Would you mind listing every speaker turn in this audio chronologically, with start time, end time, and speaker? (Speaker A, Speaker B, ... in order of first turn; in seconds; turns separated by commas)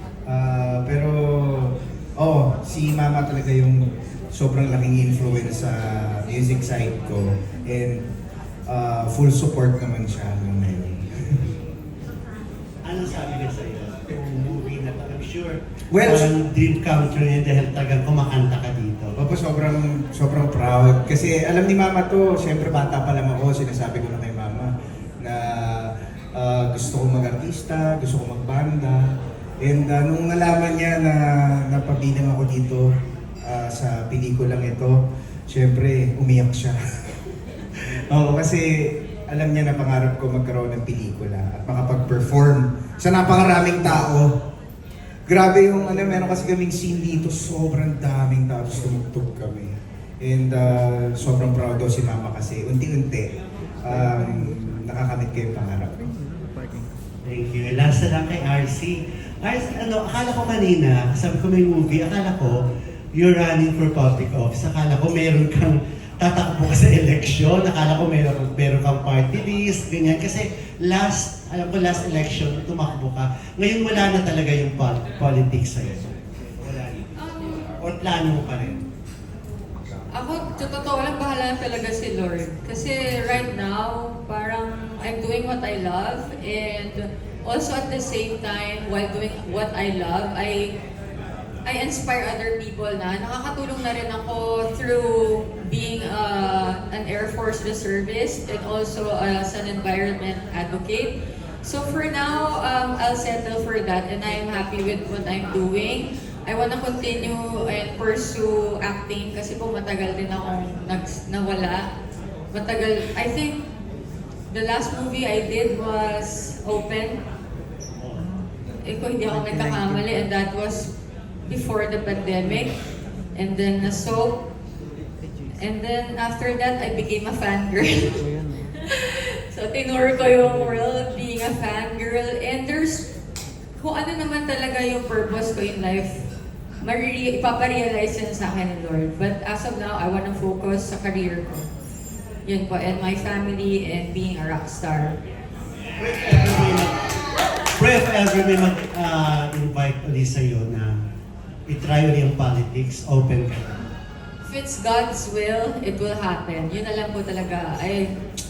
Speaker A: 0.2-8.0, Speaker A: 8.7-11.4, Speaker B: 12.8-19.1, Speaker A: 15.9-16.3, Speaker A: 19.2-36.8, Speaker A: 37.8-44.4, Speaker A: 45.3-56.0, Speaker B: 57.2-62.5, Speaker B: 63.1-77.0, Speaker C: 77.2-77.6, Speaker B: 77.8-78.8, Speaker C: 80.1-90.7, Speaker C: 91.7-111.8, Speaker C: 112.5-113.6, Speaker C: 114.5-117.2, Speaker B: 118.0-118.3, Speaker C: 118.8-120.9, Speaker C: 121.5-122.7, Speaker C: 123.3-124.3, Speaker C: 125.6-128.2, Speaker C: 128.8-133.1, Speaker C: 133.8-136.2, Speaker C: 136.8-141.5, Speaker C: 142.4-145.2, Speaker B: 146.0-147.0, Speaker B: 147.7-151.0, Speaker B: 151.7-153.9, Speaker C: 154.4-158.1